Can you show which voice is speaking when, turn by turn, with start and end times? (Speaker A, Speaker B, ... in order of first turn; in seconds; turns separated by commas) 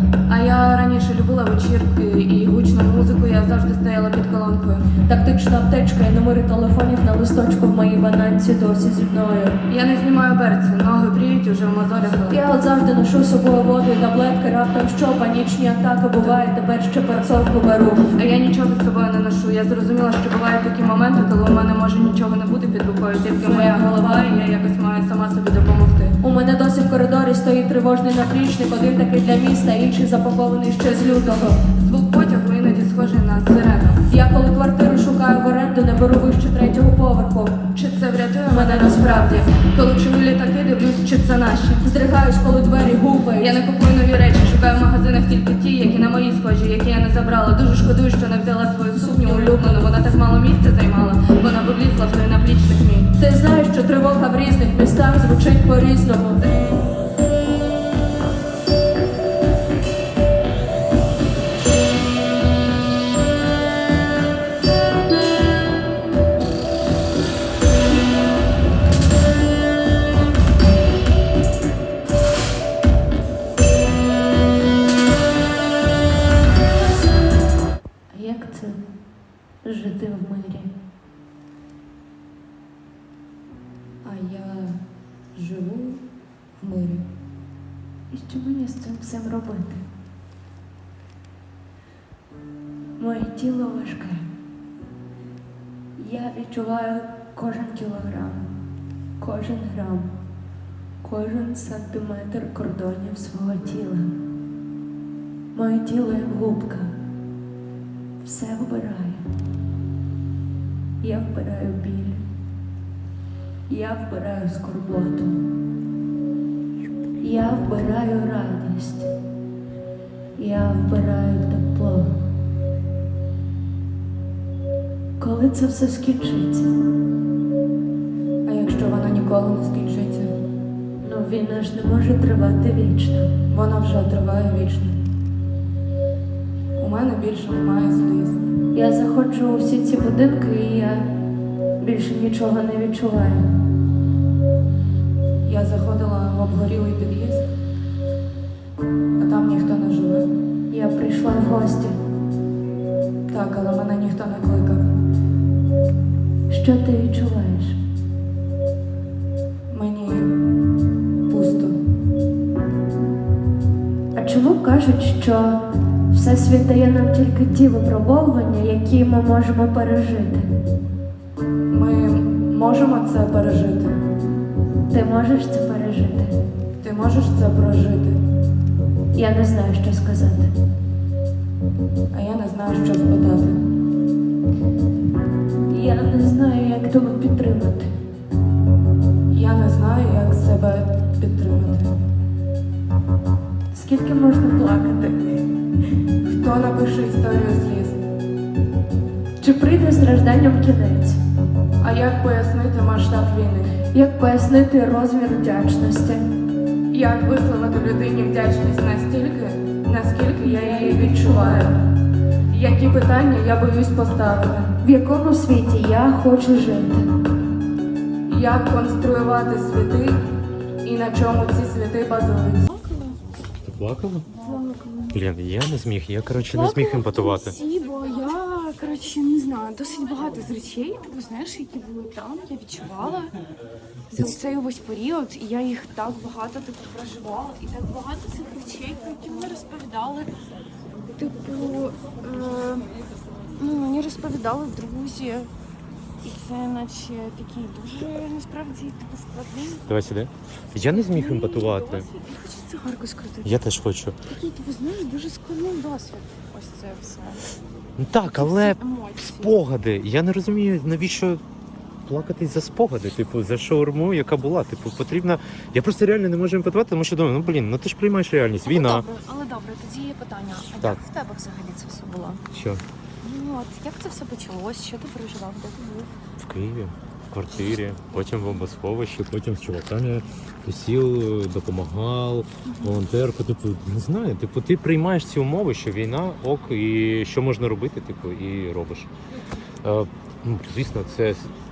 Speaker A: 0.3-4.9, Speaker B: 5.0-9.6, Speaker A: 9.7-12.4, Speaker B: 12.3-18.1, Speaker A: 16.2-16.6, Speaker A: 17.3-26.2, Speaker B: 23.5-24.1, Speaker B: 26.2-31.6, Speaker A: 30.8-34.0, Speaker B: 34.1-37.8, Speaker A: 37.8-42.0, Speaker B: 38.5-39.4, Speaker B: 41.9-43.5, Speaker A: 43.2-53.1, Speaker B: 49.3-49.8, Speaker B: 53.2-56.4, Speaker A: 56.4-56.7, Speaker C: 78.1-78.8, Speaker C: 79.6-80.7, Speaker A: 84.0-84.8, Speaker A: 85.3-86.0, Speaker A: 86.6-87.0, Speaker C: 88.1-89.8, Speaker C: 93.0-94.2, Speaker C: 96.0-98.5, Speaker C: 99.2-100.1, Speaker C: 101.0-104.1, Speaker C: 105.5-106.9, Speaker C: 108.2-109.2, Speaker C: 111.0-112.2, Speaker C: 113.7-115.3, Speaker C: 117.2-119.1, Speaker C: 120.3-122.1, Speaker C: 125.2-126.7, Speaker A: 128.4-130.3, Speaker C: 131.0-133.3, Speaker A: 133.5-135.0, Speaker A: 136.8-138.4, Speaker C: 138.7-141.0, Speaker C: 141.8-143.4, Speaker A: 145.4-147.5, Speaker A: 149.2-150.3, Speaker C: 150.7-151.9, Speaker A: 153.3-154.8, Speaker C: 156.5-157.8, Speaker A: 159.7-160.3, Speaker A: 161.3-161.8, Speaker C: 164.2-165.6, Speaker C: 166.1-170.4, Speaker A: 171.7-174.0, Speaker C: 174.9-176.3, Speaker A: 176.8-178.2, Speaker C: 179.1-180.5, Speaker A: 182.1-183.6, Speaker C: 185.7-187.9, Speaker A: 189.3-191.9, Speaker C: 193.7-195.2, Speaker A: 196.2-198.0, Speaker C: 199.4-201.2, Speaker A: 201.8-203.7, Speaker C: 203.9-206.1, Speaker A: 206.9-211.7, Speaker A: 212.5-214.7, Speaker C: 214.8-217.0, Speaker A: 218.3-220.2, Speaker A: 220.8-222.6, Speaker D: 222.7-223.2, Speaker E: 223.6-224.2, Speaker D: 224.4-225.2, Speaker E: 225.1-227.5, Speaker D: 226.5-233.3, Speaker D: 234.1-240.3, Speaker D: 241.1-242.9, Speaker D: 243.6-245.5, Speaker D: 246.2-249.8, Speaker E: 249.9-252.1, Speaker D: 250.8-253.5, Speaker E: 253.4-254.2, Speaker D: 254.3-257.4, Speaker E: 258.0-261.4, Speaker D: 258.2-259.5, Speaker E: 262.1-269.1, Speaker D: 268.6-272.4, Speaker E: 272.5-272.8, Speaker D: 273.2-276.1, Speaker E: 276.4-289.1, Speaker D: 282.6-283.0, Speaker E: 289.8-291.5